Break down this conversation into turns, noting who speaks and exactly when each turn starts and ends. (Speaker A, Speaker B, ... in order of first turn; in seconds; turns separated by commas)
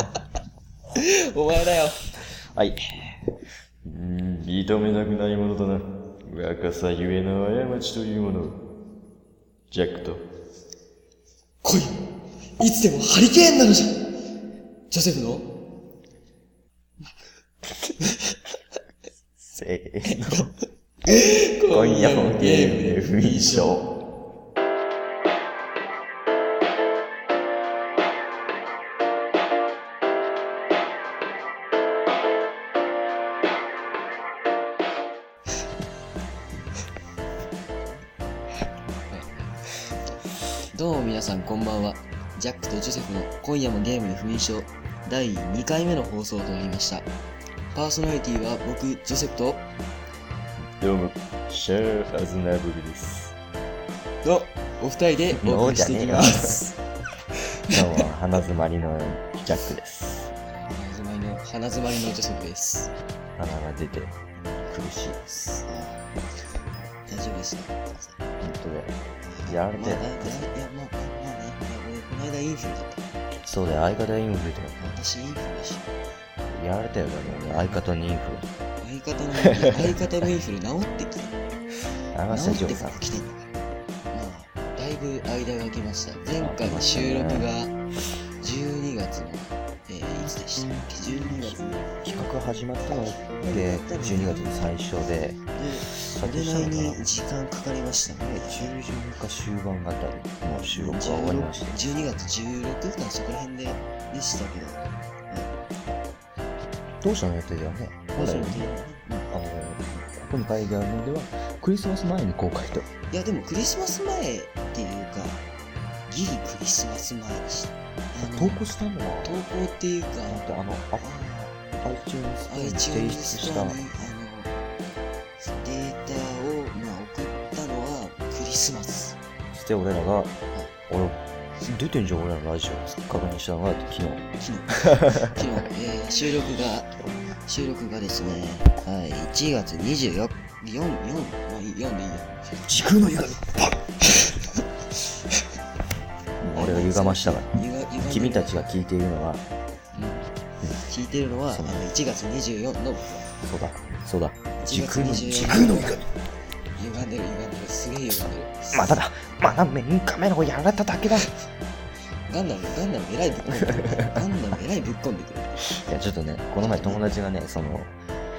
Speaker A: 0.9-2.0, Speaker B: 2.5-8.6, Speaker B: 9.7-10.2, Speaker A: 11.6-12.0, Speaker A: 12.6-14.0, Speaker A: 14.9-15.5, Speaker A: 18.0-18.4, Speaker B: 19.4-20.5, Speaker A: 20.1-23.8, Speaker B: 21.2-23.8, Speaker A: 39.1-40.2, Speaker A: 40.7-47.1, Speaker A: 47.7-49.7, Speaker B: 50.8-53.4, Speaker A: 54.2-56.8, Speaker B: 55.3-56.6, Speaker B: 57.7-60.3, Speaker A: 57.7-58.0, Speaker A: 60.5-62.9, Speaker B: 63.4-65.3, Speaker A: 64.4-66.1, Speaker A: 66.7-68.2, Speaker B: 68.4-70.5, Speaker A: 69.2-73.1, Speaker B: 73.5-74.8, Speaker A: 74.8-75.9, Speaker B: 76.5-78.5, Speaker A: 77.2-77.8, Speaker A: 78.8-81.4, Speaker B: 79.5-80.0, Speaker B: 82.1-83.0, Speaker A: 82.3-83.6, Speaker A: 84.1-87.8, Speaker B: 86.4-87.5, Speaker A: 88.4-91.9, Speaker B: 91.4-95.4, Speaker A: 92.9-94.5, Speaker A: 95.5-98.8, Speaker B: 96.1-97.1, Speaker B: 98.3-102.0, Speaker A: 100.6-105.5, Speaker B: 107.0-108.7, Speaker A: 108.2-109.3, Speaker B: 109.3-112.9, Speaker A: 113.1-115.4, Speaker A: 116.1-118.6, Speaker B: 118.2-119.4, Speaker A: 119.2-121.6, Speaker B: 120.3-121.1, Speaker B: 121.8-123.8, Speaker A: 122.5-124.5, Speaker A: 125.4-129.2, Speaker B: 129.5-130.3, Speaker B: 130.9-134.3, Speaker A: 134.4-142.7, Speaker B: 134.8-135.6, Speaker B: 142.7-143.9, Speaker A: 144.0-144.6, Speaker B: 146.4-147.5, Speaker A: 146.5-148.7, Speaker B: 148.1-149.4, Speaker A: 149.9-150.3, Speaker A: 150.9-153.3, Speaker B: 151.5-151.9, Speaker B: 153.4-156.1, Speaker A: 154.6-156.0, Speaker A: 156.8-159.0, Speaker B: 158.7-161.3, Speaker A: 162.3-165.7, Speaker B: 163.5-164.1, Speaker B: 165.8-167.9, Speaker A: 166.6-167.0